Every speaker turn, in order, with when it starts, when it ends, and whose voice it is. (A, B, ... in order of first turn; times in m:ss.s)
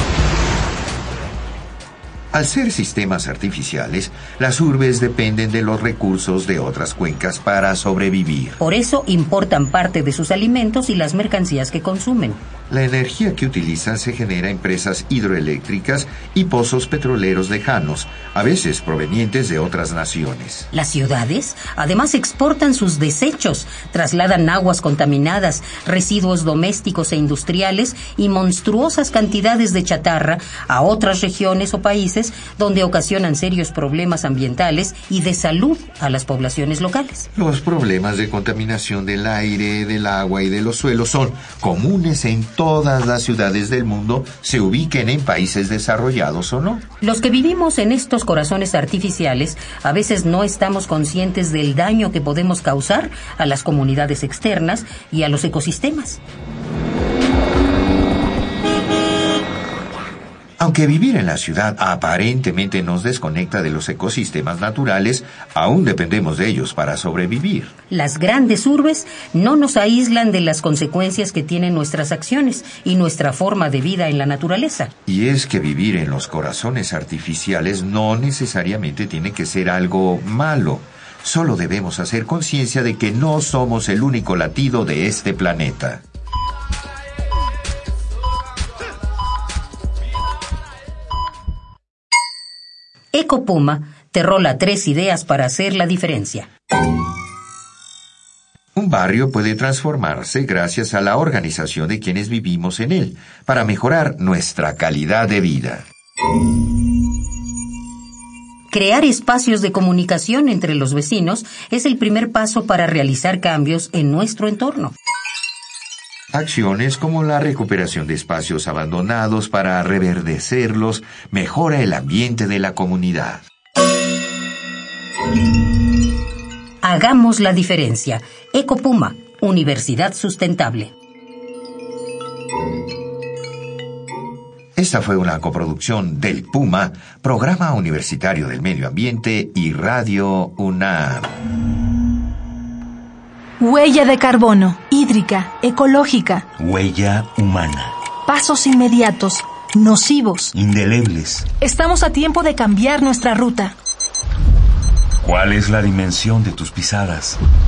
0:02.3-0:08.6 A
0:08.6-0:12.4 B
0:12.7-0:20.7 A
0:20.7-0:37.3 B
0:37.4-0:46.8 A
0:47.0-0:56.2 B
1:00.6-1:07.7 A
1:07.9-1:14.9 B
1:15.1-1:26.0 A
1:33.1-1:36.5 B
1:38.8-1:45.9 A
1:48.7-1:54.9 B
1:56.3-2:03.4 A
2:06.8-2:10.9 B
2:14.8-2:21.3 A
2:23.6-2:26.5 C
2:26.6-2:28.0 D
2:28.3-2:30.6 C
2:30.6-2:31.5 D
2:31.6-2:33.8 C
2:35.2-2:37.4 D